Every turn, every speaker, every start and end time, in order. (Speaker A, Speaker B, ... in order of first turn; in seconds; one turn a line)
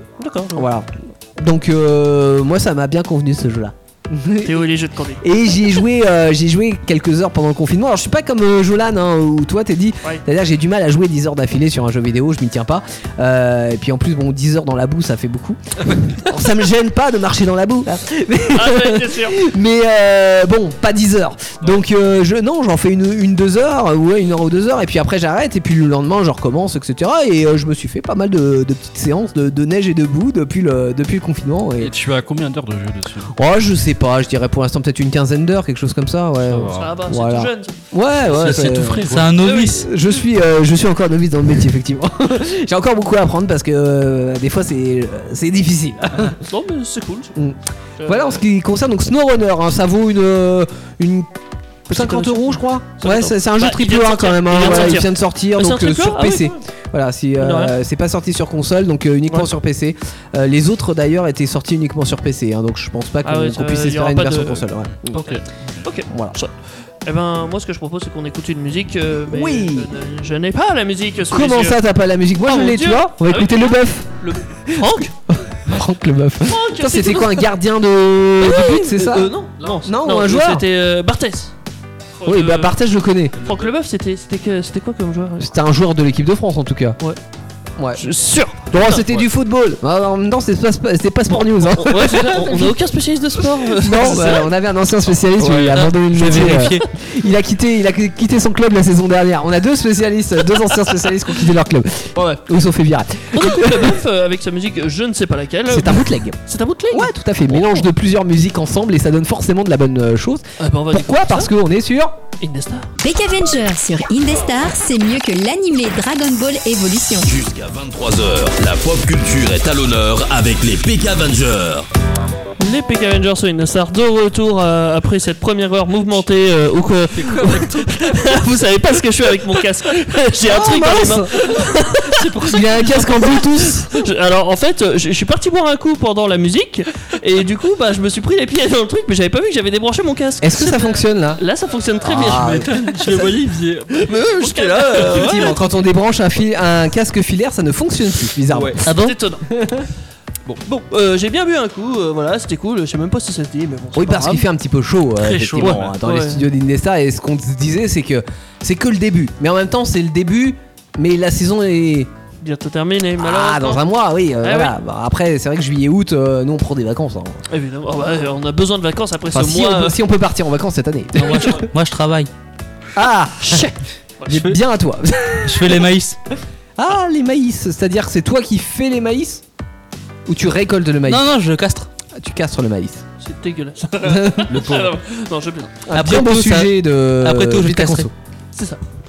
Speaker A: 0.2-0.7
Speaker B: 0.6-4.7
Speaker A: 4.4-5.2
Speaker B: 5.2-31.9
Speaker A: 18.5-19.4
Speaker C: 31.8-33.3
Speaker B: 33.3-46.4
Speaker C: 36.5-36.9
Speaker A: 36.7-37.7
Speaker C: 38.3-39.3
Speaker D: 39.1-39.9
Speaker A: 39.4-39.9
Speaker A: 46.3-47.3
Speaker B: 47.4-51.3
Speaker A: 48.0-48.4
Speaker B: 51.9-65.3
Speaker A: 51.9-56.6
Speaker A: 57.4-57.7
Speaker A: 63.2-66.5
Speaker C: 65.2-65.7
Speaker B: 66.1-66.4
Speaker A: 67.0-71.8
Speaker B: 69.3-69.9
Speaker B: 71.3-80.7
Speaker A: 72.4-75.1
Speaker A: 76.5-77.5
Speaker A: 78.4-81.5
Speaker A: 82.2-82.8
Speaker B: 82.2-83.3
Speaker C: 83.4-83.7
Speaker A: 83.4-85.5
Speaker B: 85.4-87.0
Speaker B: 87.8-88.0
Speaker A: 88.0-89.0
Speaker B: 88.6-92.7
Speaker A: 91.7-94.5
Speaker B: 93.7-104.0
Speaker C: 95.4-95.8
Speaker D: 95.7-96.8
Speaker A: 103.3-107.1
Speaker B: 105.7-106.4
Speaker B: 106.9-112.2
Speaker A: 110.6-111.5
Speaker A: 112.4-112.9
Speaker E: 113.0-117.3
Speaker F: 117.2-121.9
Speaker A: 122.6-143.2
Speaker C: 127.1-128.4
Speaker B: 130.4-131.7
Speaker B: 132.4-134.0
Speaker B: 140.4-141.4
Speaker B: 142.0-142.7
Speaker C: 142.3-145.5
Speaker A: 144.0-145.5
Speaker B: 144.9-148.8
Speaker C: 148.5-148.8
Speaker D: 148.8-149.2
Speaker A: 148.8-149.4
Speaker B: 149.5-149.9
Speaker A: 150.7-154.5
Speaker B: 153.9-162.1
Speaker C: 155.2-156.0
Speaker A: 155.6-156.4
Speaker A: 162.4-163.8
Speaker B: 163.2-167.4
Speaker A: 164.4-164.8
Speaker A: 167.5-170.0
Speaker B: 169.3-171.7
Speaker D: 171.2-172.3
Speaker B: 172.9-173.7
Speaker A: 173.4-174.4
Speaker B: 174.3-175.9
Speaker D: 175.5-176.2
Speaker B: 176.8-179.4
Speaker B: 180.3-181.2
Speaker D: 181.1-181.9
Speaker B: 182.2-183.0
Speaker A: 183.2-185.8
Speaker B: 184.0-184.7
Speaker C: 184.5-184.9
Speaker B: 185.9-188.1
Speaker D: 185.9-188.1
Speaker A: 188.6-188.8